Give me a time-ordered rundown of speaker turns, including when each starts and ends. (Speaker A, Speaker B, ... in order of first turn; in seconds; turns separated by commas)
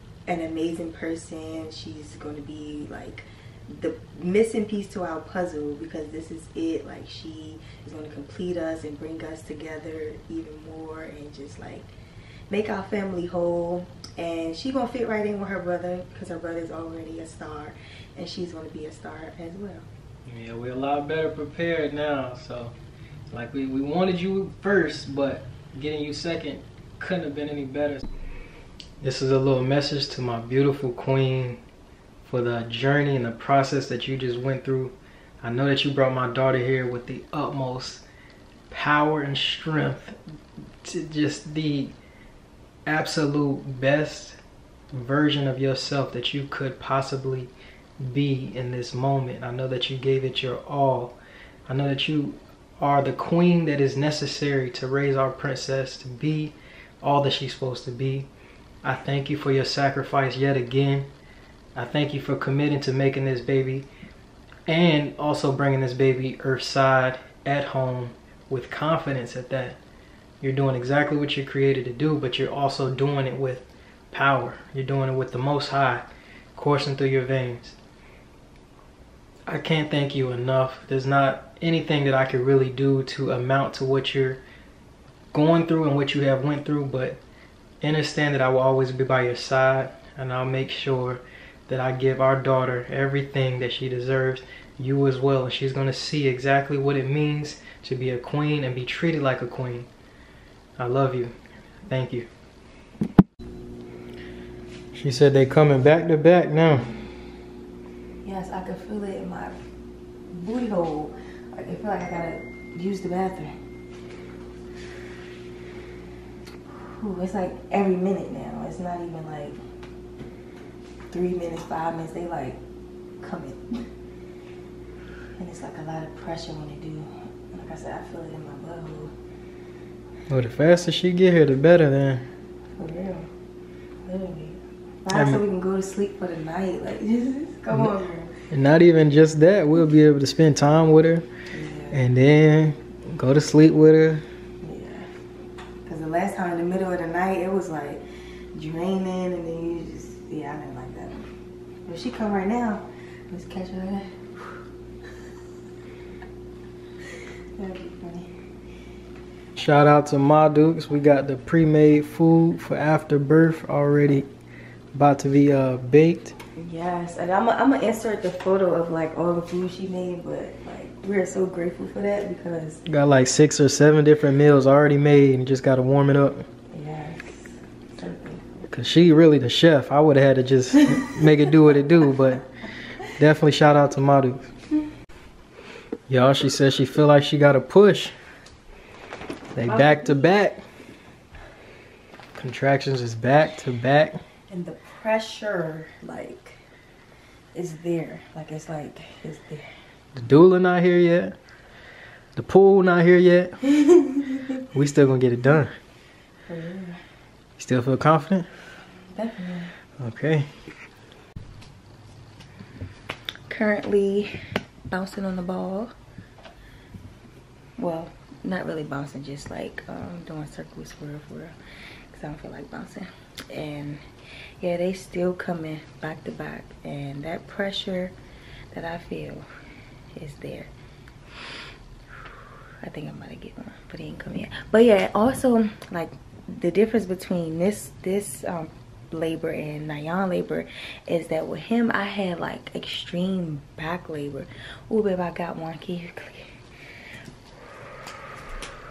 Speaker A: 0.3-11.9, Speaker A: 12.5-19.9, Speaker B: 20.2-22.7, Speaker B: 23.3-28.0, Speaker B: 29.0-31.6, Speaker B: 32.2-38.0, Speaker B: 38.7-40.2, Speaker B: 40.8-42.0, Speaker B: 42.9-44.4, Speaker B: 44.9-58.3, Speaker B: 58.8-61.1, Speaker B: 61.7-63.9, Speaker B: 64.7-69.8, Speaker B: 70.4-77.8, Speaker B: 79.5-84.4, Speaker B: 85.3-87.2, Speaker B: 87.8-99.9, Speaker B: 100.8-101.3, Speaker B: 101.8-102.3, Speaker B: 104.9-106.9, Speaker A: 108.2-109.6, Speaker A: 110.3-113.5, Speaker A: 116.7-119.6, Speaker A: 121.1-122.6, Speaker A: 123.2-123.8, Speaker A: 125.4-129.1, Speaker B: 130.3-132.3, Speaker A: 132.7-133.3, Speaker A: 134.0-138.3, Speaker B: 135.1-135.4, Speaker B: 138.5-141.2, Speaker A: 141.5-142.0, Speaker B: 141.9-144.2, Speaker A: 144.6-145.1, Speaker A: 145.8-148.0, Speaker A: 148.5-151.2, Speaker A: 151.8-154.3, Speaker A: 157.6-158.3, Speaker B: 159.6-164.3, Speaker B: 164.9-166.3, Speaker A: 166.6-172.8, Speaker B: 172.8-176.5, Speaker A: 176.7-178.7, Speaker B: 178.7-182.5, Speaker B: 183.0-184.5, Speaker B: 186.1-188.1, Speaker B: 189.5-190.6, Speaker A: 189.7-190.3, Speaker B: 192.3-194.2, Speaker A: 194.5-196.6, Speaker A: 197.5-199.7, Speaker B: 200.1-201.3, Speaker B: 202.3-203.6, Speaker A: 203.8-204.4, Speaker B: 204.7-205.8, Speaker A: 206.4-207.0, Speaker B: 207.6-208.5, Speaker A: 209.1-209.7, Speaker B: 210.0-210.5, Speaker A: 213.5-214.3, Speaker A: 214.9-215.9, Speaker A: 217.8-221.5, Speaker A: 222.1-224.0, Speaker A: 224.6-228.1, Speaker A: 228.7-229.5, Speaker A: 230.1-230.7, Speaker A: 232.8-246.6